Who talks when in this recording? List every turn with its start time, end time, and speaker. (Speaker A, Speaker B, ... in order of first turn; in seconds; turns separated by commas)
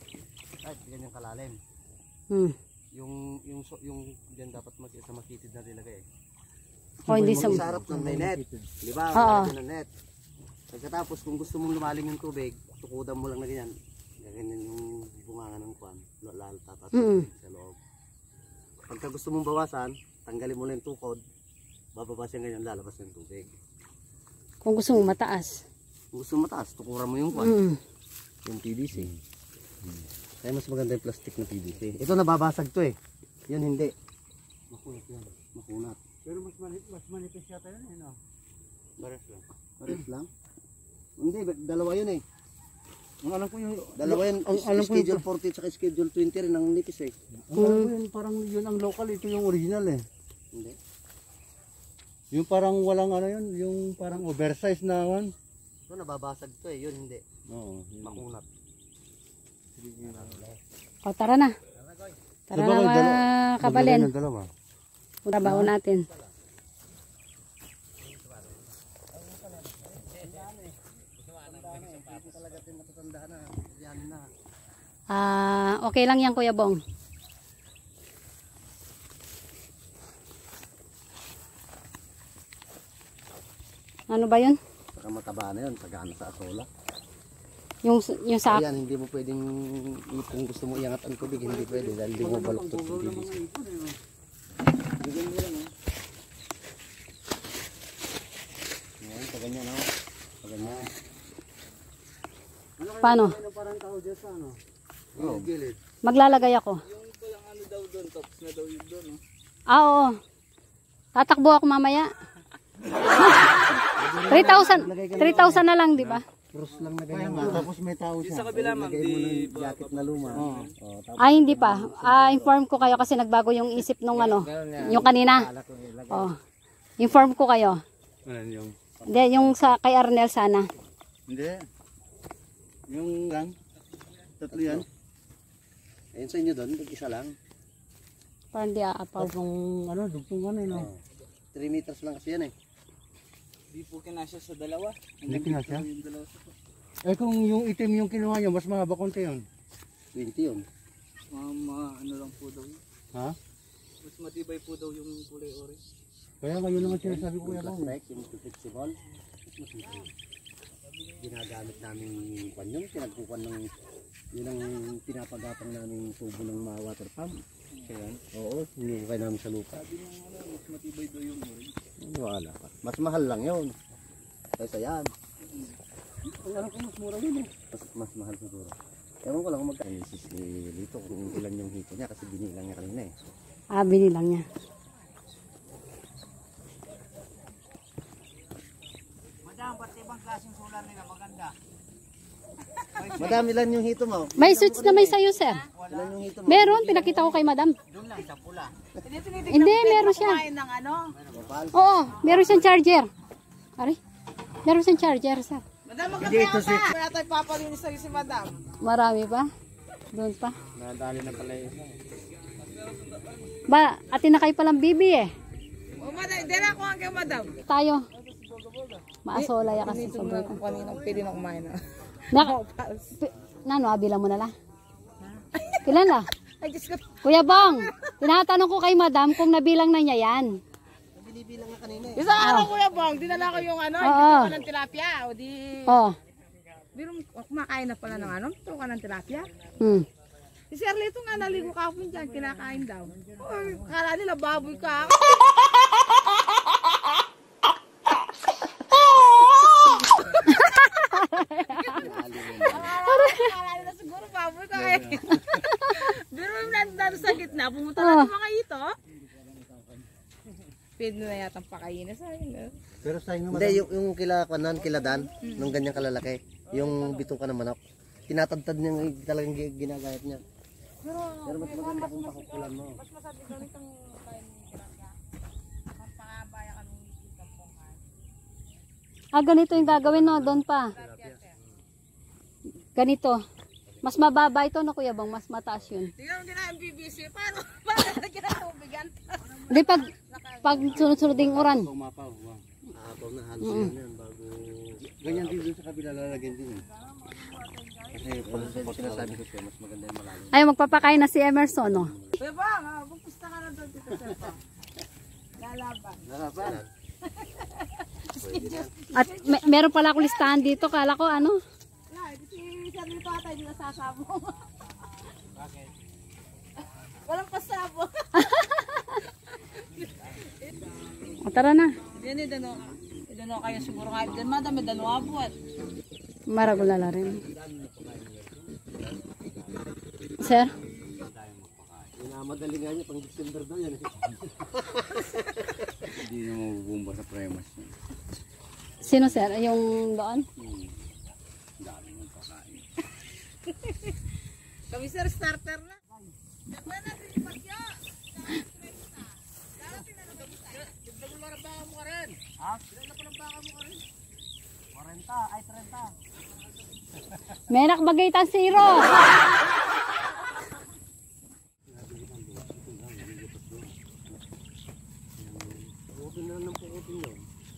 Speaker A: 0.6-1.6, Speaker A: 2.9-6.0, Speaker B: 7.1-8.7, Speaker C: 7.1-7.6, Speaker A: 7.1-9.9, Speaker C: 9.1-9.5, Speaker A: 10.7-17.8, Speaker C: 16.9-17.2, Speaker A: 18.9-21.2, Speaker A: 21.9-23.6, Speaker C: 24.6-25.6, Speaker A: 26.1-27.6, Speaker C: 27.3-27.8, Speaker A: 28.4-29.1, Speaker A: 30.4-33.0, Speaker A: 33.5-33.9, Speaker B: 34.7-35.3, Speaker A: 35.5-36.0, Speaker B: 36.2-38.2, Speaker B: 39.0-39.4, Speaker A: 39.8-40.3, Speaker A: 41.2-42.2, Speaker B: 43.2-45.2, Speaker A: 44.0-47.1, Speaker B: 47.5-50.0, Speaker C: 47.6-47.9, Speaker B: 52.3-55.3, Speaker A: 55.9-57.2, Speaker B: 57.5-58.2, Speaker A: 58.0-58.5, Speaker B: 59.8-60.4, Speaker A: 60.1-60.6, Speaker C: 61.0-61.5, Speaker C: 62.5-64.1, Speaker B: 62.5-64.5, Speaker C: 65.2-66.1, Speaker B: 65.4-65.7, Speaker A: 70.0-70.8, Speaker D: 71.2-72.3, Speaker A: 71.4-74.3, Speaker C: 75.1-76.8, Speaker C: 84.1-84.6, Speaker A: 84.9-86.7, Speaker C: 87.8-88.6, Speaker A: 88.5-93.4, Speaker B: 91.3-94.0, Speaker B: 95.0-95.7, Speaker A: 99.0-99.9, Speaker A: 100.4-100.9, Speaker B: 100.6-100.9, Speaker B: 102.8-104.6, Speaker C: 103.0-103.4, Speaker B: 105.2-105.8, Speaker A: 105.2-105.5, Speaker C: 106.0-106.8, Speaker D: 106.9-109.2, Speaker C: 109.7-110.2, Speaker C: 111.2-112.1, Speaker A: 114.0-115.7, Speaker C: 114.3-116.2, Speaker B: 115.0-115.4, Speaker A: 116.5-117.7, Speaker B: 117.1-118.6, Speaker D: 118.2-120.7, Speaker A: 118.4-123.0, Speaker B: 120.3-120.7, Speaker C: 121.2-125.5, Speaker D: 124.1-126.3, Speaker C: 126.1-126.4, Speaker C: 127.0-127.8, Speaker B: 128.2-128.8, Speaker A: 129.0-129.7, Speaker C: 129.1-130.7, Speaker B: 131.3-131.6, Speaker B: 132.9-133.5, Speaker B: 134.4-134.8, Speaker A: 134.5-134.9, Speaker A: 136.1-137.3, Speaker C: 138.5-139.3, Speaker B: 139.2-140.9, Speaker A: 140.7-141.0, Speaker A: 141.5-142.5, Speaker D: 143.7-146.5, Speaker B: 145.2-145.9, Speaker B: 147.0-149.4, Speaker A: 150.1-150.7, Speaker D: 151.3-152.8, Speaker D: 154.0-155.8, Speaker B: 156.4-157.9, Speaker A: 156.8-159.0, Speaker A: 159.5-160.1, Speaker A: 161.2-163.7, Speaker A: 164.3-167.4, Speaker D: 167.8-168.2, Speaker A: 168.3-169.8, Speaker D: 169.8-171.7, Speaker B: 172.0-172.7, Speaker A: 172.7-173.8, Speaker A: 174.6-175.1, Speaker B: 176.3-177.5, Speaker A: 177.7-183.1, Speaker C: 183.7-184.4, Speaker D: 189.4-191.6, Speaker D: 192.9-193.5, Speaker A: 193.2-195.2, Speaker C: 194.4-195.6, Speaker D: 195.7-196.2, Speaker A: 195.9-197.4, Speaker C: 196.5-197.8, Speaker D: 197.9-198.7, Speaker E: 199.0-201.2, Speaker C: 199.5-200.4, Speaker D: 201.2-201.6, Speaker A: 201.3-201.9, Speaker C: 201.7-203.1, Speaker C: 204.6-205.6, Speaker E: 205.9-208.6, Speaker D: 206.1-206.9, Speaker C: 208.8-209.5, Speaker C: 210.1-210.6, Speaker D: 210.8-211.8, Speaker C: 213.7-215.3, Speaker E: 215.9-217.6, Speaker C: 217.7-218.1, Speaker E: 218.9-221.8, Speaker C: 219.2-220.6, Speaker C: 222.3-222.6, Speaker E: 222.3-223.1, Speaker C: 223.2-224.5, Speaker E: 225.3-225.9, Speaker C: 225.8-226.3, Speaker E: 226.6-228.1, Speaker C: 227.2-230.6, Speaker A: 231.1-232.5, Speaker E: 232.1-236.0, Speaker C: 232.4-232.7, Speaker C: 234.0-234.6, Speaker C: 235.9-236.1, Speaker E: 236.9-239.5, Speaker C: 239.8-240.1, Speaker E: 240.7-245.6, Speaker D: 243.1-243.9, Speaker E: 249.1-250.5, Speaker C: 250.5-252.0, Speaker A: 251.9-253.0, Speaker E: 252.5-258.9, Speaker C: 253.0-253.5, Speaker B: 254.7-255.7, Speaker C: 258.0-258.3, Speaker D: 259.1-260.1, Speaker E: 261.0-262.7, Speaker B: 263.0-263.9, Speaker A: 263.5-270.4, Speaker E: 265.4-265.7, Speaker E: 271.0-275.1, Speaker A: 271.4-273.0, Speaker E: 275.9-278.1, Speaker C: 279.3-280.9, Speaker A: 280.0-281.4, Speaker E: 280.9-281.5, Speaker C: 282.9-283.4, Speaker A: 283.9-284.2, Speaker C: 284.0-286.1, Speaker E: 286.1-290.9, Speaker C: 289.7-290.1, Speaker C: 290.6-291.9, Speaker B: 290.8-292.6, Speaker A: 292.9-295.7, Speaker C: 293.6-293.9, Speaker B: 295.0-296.8, Speaker E: 296.9-298.2, Speaker B: 298.1-299.4, Speaker A: 298.4-301.2, Speaker C: 300.5-302.1, Speaker A: 301.8-302.4, Speaker E: 302.4-304.6, Speaker E: 305.6-306.2, Speaker A: 306.3-306.9, Speaker B: 306.4-306.8, Speaker E: 307.2-311.0, Speaker A: 308.3-308.9, Speaker C: 309.1-311.6, Speaker E: 312.1-314.6, Speaker E: 317.2-318.3, Speaker C: 318.4-319.1, Speaker C: 321.4-321.9, Speaker E: 322.1-325.5, Speaker C: 326.5-327.4, Speaker D: 327.1-328.6, Speaker C: 330.4-330.7, Speaker D: 331.2-332.1, Speaker A: 332.2-335.5, Speaker B: 336.1-337.9, Speaker C: 339.0-340.4, Speaker B: 340.6-340.9, Speaker B: 341.8-342.8, Speaker E: 343.6-344.1, Speaker E: 344.9-346.0, Speaker E: 346.7-351.0, Speaker D: 351.3-352.4, Speaker A: 352.5-353.4, Speaker A: 354.9-356.1, Speaker C: 357.7-359.1, Speaker B: 361.9-363.9, Speaker A: 365.4-367.4